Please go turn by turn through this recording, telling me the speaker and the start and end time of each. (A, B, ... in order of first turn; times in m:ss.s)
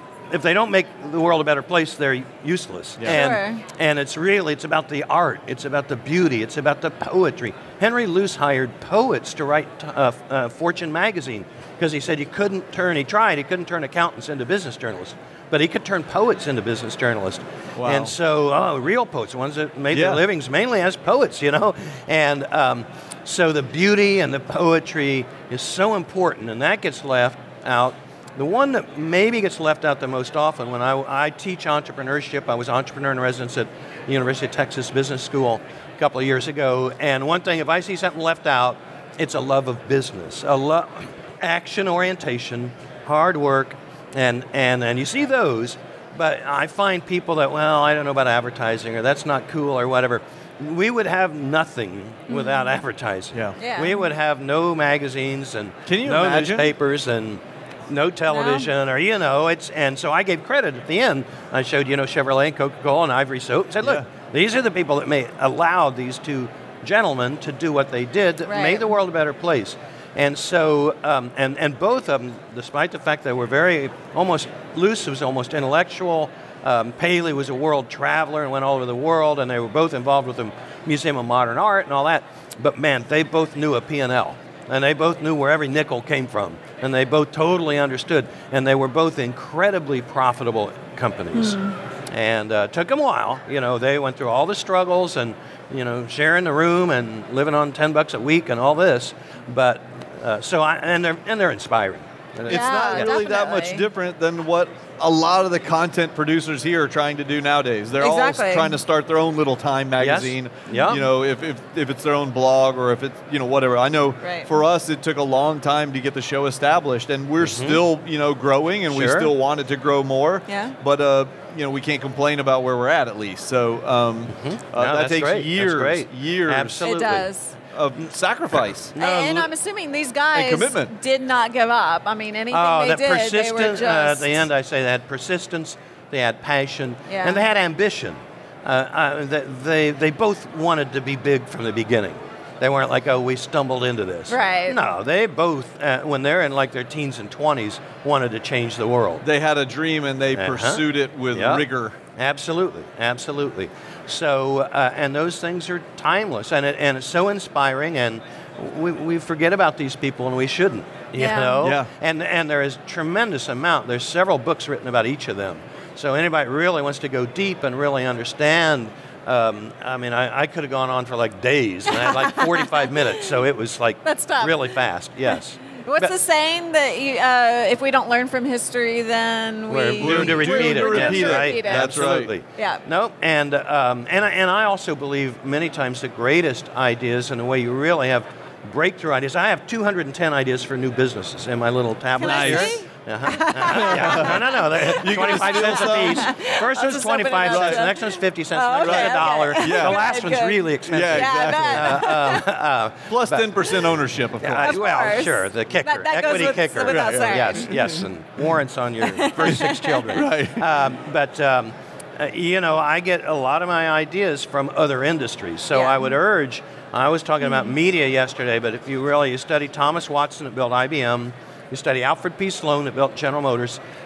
0:00.3-1:43.2 A
0:03.0-0:03.2 B
0:03.0-0:03.6 C
0:17.8-0:18.1 B
0:19.9-0:20.2 B
0:52.3-0:52.7 C
0:53.6-0:54.1 C
0:55.8-0:56.7 B
0:58.3-0:58.7 C
1:08.4-1:08.9 C
1:31.3-1:31.7 C
1:42.4-2:06.8 B
1:42.5-1:43.9 C
1:48.0-1:48.8 C
1:50.0-1:51.0 A
1:50.7-1:51.0 C
1:54.2-1:54.5 C
1:57.4-1:57.8 A
1:58.9-1:59.3 A
2:00.5-2:00.8 C
2:04.3-2:07.3 A
2:06.8-2:07.6 C
2:07.7-2:08.9 B
2:08.9-2:09.5 A
2:09.0-2:14.4 C
2:10.3-2:10.9 B
2:12.5-2:29.2 A
2:17.1-2:17.4 C
2:24.3-2:24.8 C
2:29.2-2:32.0 B
2:30.3-2:56.1 A
2:41.2-2:41.7 C
2:41.6-2:41.9 B
2:51.9-2:53.0 C
2:54.0-2:54.8 C
2:55.3-3:02.0 C
2:59.7-3:23.8 A
3:00.0-3:02.3 B
3:02.6-3:02.8 C
3:12.2-3:22.4 C
3:12.2-3:12.7 B
3:13.7-3:14.4 B
3:15.0-3:16.3 B
3:17.4-3:17.9 B
3:18.8-3:20.1 B
3:20.9-3:22.0 B
3:23.1-3:24.8 B
3:24.4-3:43.8 A
3:24.6-3:27.8 C
3:26.9-3:28.1 B
3:29.0-3:30.2 C
3:30.1-3:30.6 B
3:35.7-3:36.1 C
3:37.4-3:37.7 C